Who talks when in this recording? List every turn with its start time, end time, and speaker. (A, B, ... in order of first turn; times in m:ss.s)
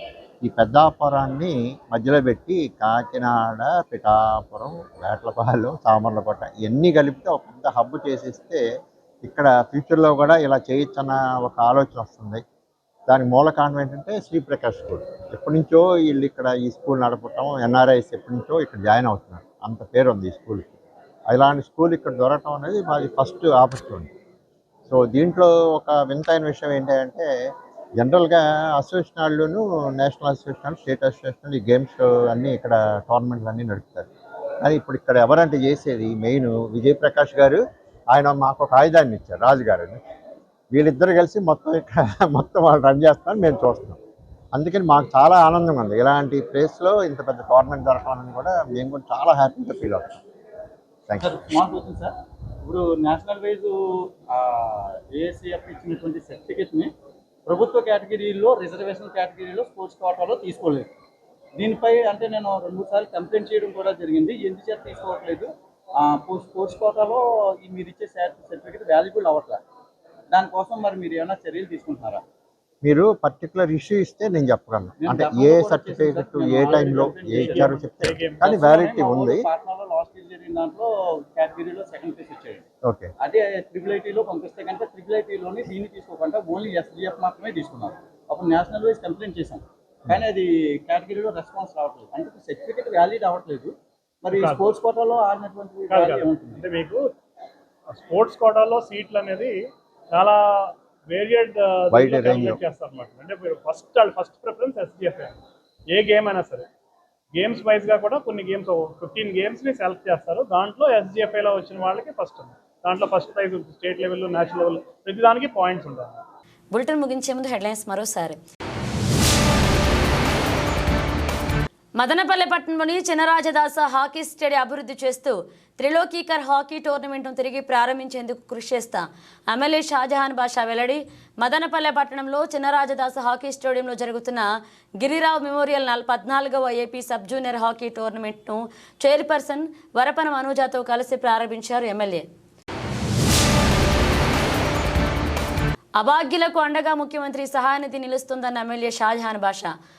0:00.4-0:08.6 A
0:09.2-0:12.4 A
0:13.1-0:20.7 A
0:21.3-0:24.1 A
0:24.9-0:27.2 A
0:28.0-0:34.1 A
0:34.6-0:37.6 A
0:38.1-0:40.0 A
0:40.7-0:44.0 A
0:44.5-0:50.2 A
0:51.1-0:51.4 A
0:51.2-0:52.1 B
0:52.6-0:56.9 B
0:57.4-1:00.9 B
1:01.6-1:09.6 B
1:10.3-1:12.2 B
1:12.8-1:19.4 A
1:15.0-1:17.9 B
1:17.3-1:19.0 C
1:18.4-1:22.6 B
1:23.2-1:36.7 B
1:34.3-1:34.7 C
1:35.9-1:37.0 C
1:37.9-1:39.5 C
1:40.1-1:45.3 C
1:41.9-1:42.6 A
1:45.9-1:46.7 C
1:47.3-1:56.2 C
1:56.7-1:58.4 D
2:02.0-2:14.4 D
2:15.0-2:22.2 D
2:26.0-2:29.7 D